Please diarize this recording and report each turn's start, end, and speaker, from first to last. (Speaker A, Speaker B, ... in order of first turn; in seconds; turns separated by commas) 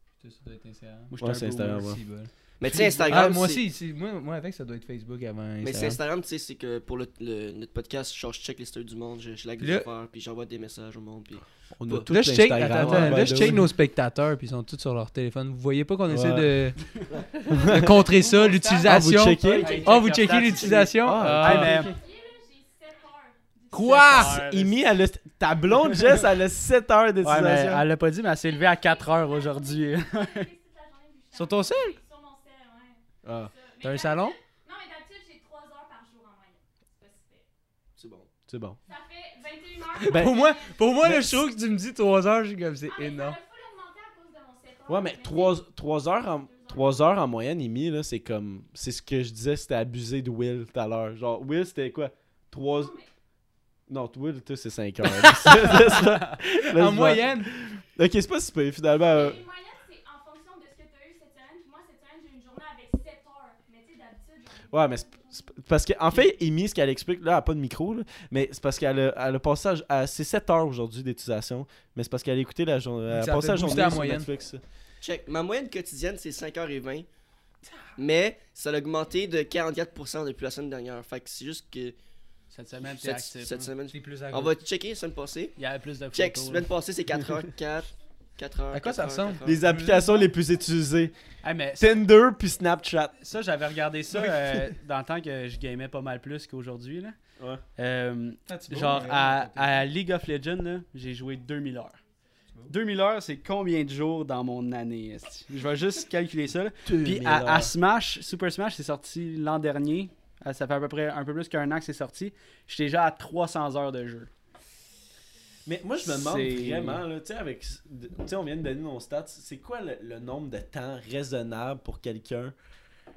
Speaker A: 0.2-1.1, Speaker B: 1.1-1.9, Speaker C: 1.2-2.0, Speaker A: 1.7-6.0, Speaker D: 2.6-3.6, Speaker B: 2.7-3.0, Speaker D: 5.6-13.6, Speaker A: 9.6-9.9, Speaker C: 11.8-13.7, Speaker A: 12.1-16.8, Speaker C: 16.1-16.7, Speaker D: 17.1-17.7, Speaker C: 17.5-18.0, Speaker A: 17.7-22.0, Speaker B: 18.1-18.9, Speaker C: 18.8-19.8, Speaker D: 19.4-20.9, Speaker B: 19.5-21.9, Speaker C: 20.9-21.9, Speaker E: 21.9-24.5, Speaker A: 23.7-24.4, Speaker B: 23.8-24.8, Speaker C: 24.4-27.9, Speaker B: 27.2-30.5, Speaker E: 28.4-37.5, Speaker A: 31.4-31.9, Speaker C: 33.2-33.5, Speaker A: 33.8-34.4, Speaker D: 38.0-38.3, Speaker C: 38.5-38.8, Speaker E: 38.9-40.9, Speaker C: 40.1-40.4, Speaker A: 40.1-43.4, Speaker C: 41.0-41.5, Speaker E: 42.9-45.6, Speaker C: 44.9-52.9, Speaker E: 46.2-47.0, Speaker E: 52.6-53.1, Speaker C: 53.9-59.4, Speaker A: 55.1-57.8, Speaker E: 59.1-65.6, Speaker C: 64.7-74.6, Speaker A: 73.1-74.3, Speaker D: 75.0-77.1, Speaker D: 78.0-82.0, Speaker B: 82.5-83.7, Speaker D: 82.8-85.6, Speaker A: 83.9-84.6, Speaker B: 85.6-86.7, Speaker D: 86.1-89.6, Speaker A: 88.7-90.3, Speaker C: 89.4-91.1, Speaker B: 91.4-92.0, Speaker C: 91.8-93.2, Speaker B: 93.2-97.2, Speaker C: 94.2-94.6, Speaker B: 97.8-102.0, Speaker A: 98.5-99.8, Speaker B: 102.7-114.3, Speaker C: 106.8-107.7, Speaker C: 115.7-122.5, Speaker B: 116.0-117.0